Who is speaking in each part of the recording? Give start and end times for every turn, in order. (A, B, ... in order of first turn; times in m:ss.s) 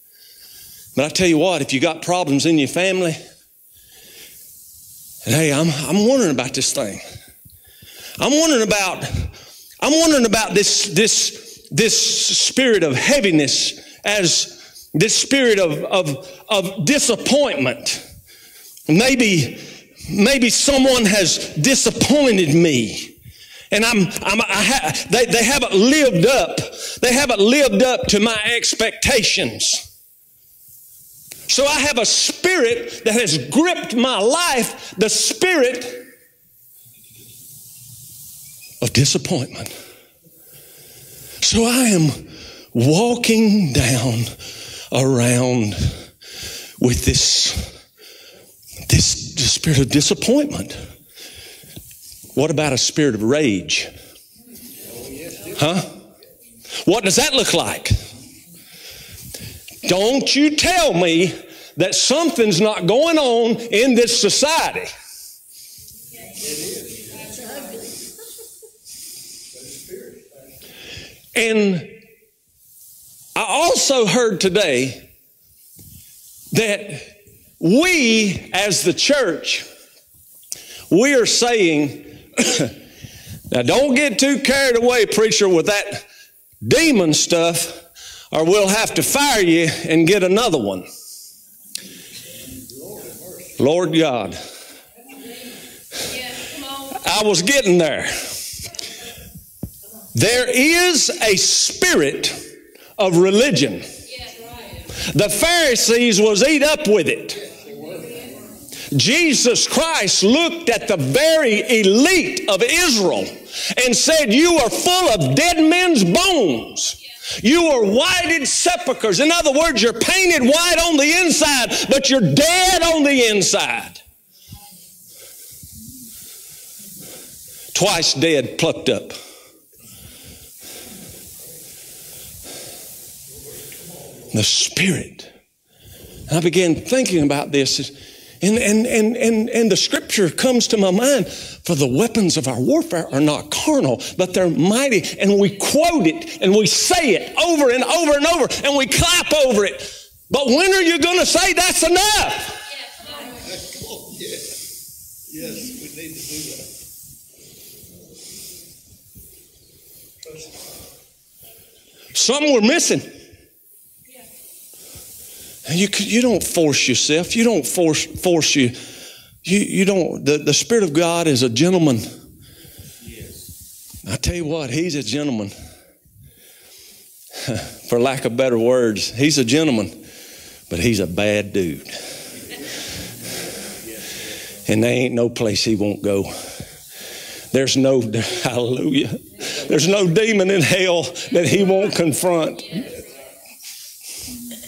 0:00.9-0:03.2 A
0:05.2-0:07.0 A
0:08.2-0:18.0 A
0:18.9-0:23.1 A
0:23.7-0:29.8 A
0:31.5-0:36.0 A
0:38.8-0:39.7 A
0:41.4-0:44.3 A
0:44.9-0:45.9 A
0:46.8-0:47.6 A
0:48.9-0:50.8 A
0:52.3-0:53.9 A
0:54.8-0:55.6 B
0:55.5-0:55.9 A
0:56.8-0:58.0 A
0:59.8-1:04.9 A
1:06.3-1:07.8 B
1:09.5-1:10.5 B
1:11.3-1:11.9 A
1:13.3-1:15.0 A
1:16.5-1:19.6 A
1:20.9-1:22.7 A
1:23.5-1:26.0 A
1:26.6-1:30.8 A
1:32.4-1:33.6 B
1:33.6-1:34.4 A
1:36.0-1:37.0 C
1:36.9-1:38.3 A
1:40.1-1:42.4 A
1:43.0-1:43.9 A
1:44.1-1:44.9 C
1:44.9-1:47.4 A
1:47.5-1:48.2 B
1:48.9-2:04.0 A
2:07.7-2:09.2 A
2:14.3-2:15.3 A
2:16.3-2:32.7 A
2:32.9-2:33.4 C
2:33.3-2:34.5 B
2:35.3-2:36.7 B
2:42.1-2:43.1 A
2:45.6-2:48.8 A
2:49.4-2:52.0 A
2:54.0-2:55.5 A
2:57.4-3:00.0 A
3:00.7-3:01.9 A
3:04.6-3:06.3 A
3:07.5-3:12.9 A